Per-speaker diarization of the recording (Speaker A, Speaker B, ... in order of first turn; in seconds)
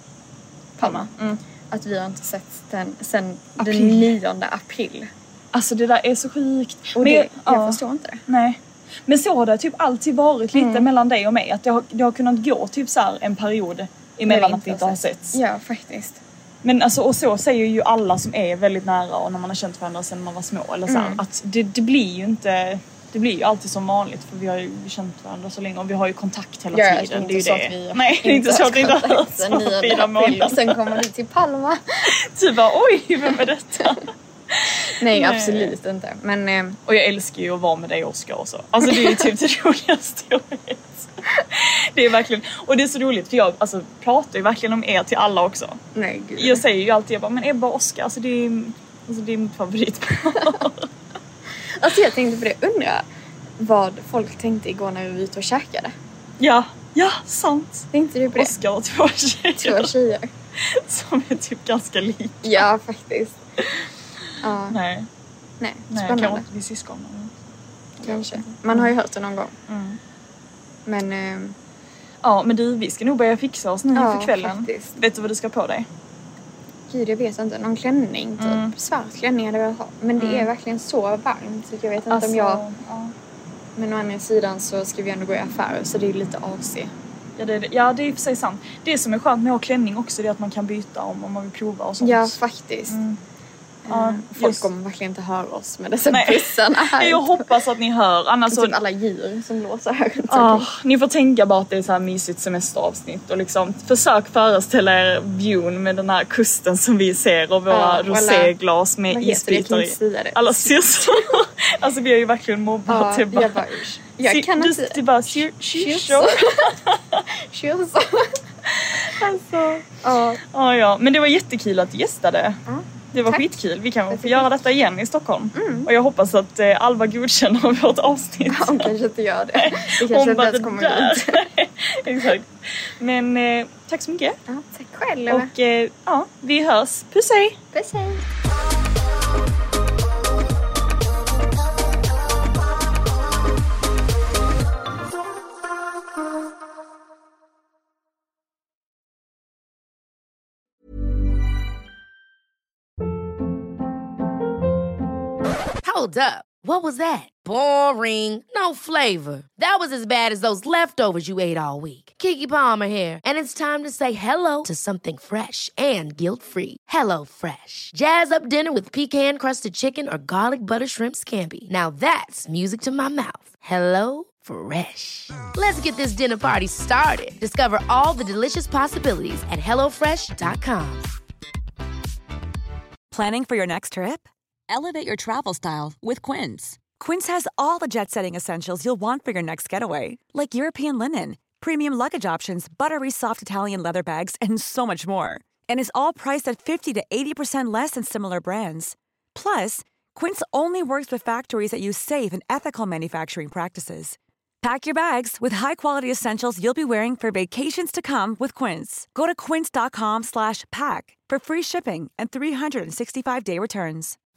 Speaker A: 0.8-1.1, 1.7-5.1, 6.9-8.2, 10.5-10.9, 14.2-16.2, 20.9-21.2, 26.7-31.8, 35.0-36.8, 38.8-39.3, 45.9-46.6, 51.8-53.0, 53.6-55.9, 57.9-58.5, 59.5-60.3, 62.4-63.4, 64.4-64.8, 65.6-66.4, 68.0-69.5, 70.8-71.6, 73.9-75.0, 76.9-82.6, 83.8-86.9, 92.0-93.0, 93.8-97.5, 98.5-100.7, 107.7-108.5, 109.1-111.0, 112.9-116.8, 117.4-118.4, 120.0-120.4, 122.7-123.5, 124.1-124.5, 125.5-125.9, 128.5-131.5, 134.5-135.5, 137.7-138.2
Speaker B: 0.8-1.4, 3.6-4.1, 5.5-15.3, 16.6-31.0, 32.1-35.7, 36.9-45.8, 46.4-50.9, 56.4-59.9, 60.6-62.7, 64.7-65.1, 65.9-67.3, 68.0-68.9, 69.7-70.0, 72.2-75.9, 78.4-78.7, 80.2-80.5, 82.1-83.1, 87.4-92.4, 92.9-93.2, 93.9-94.7, 96.1-98.7, 100.3-113.6, 114.2-117.2, 118.7-120.0, 120.5-122.6, 123.1-128.9, 129.6-134.4, 135.3-137.6
Speaker C: 155.8-181.1
Speaker D: 183.1-214.2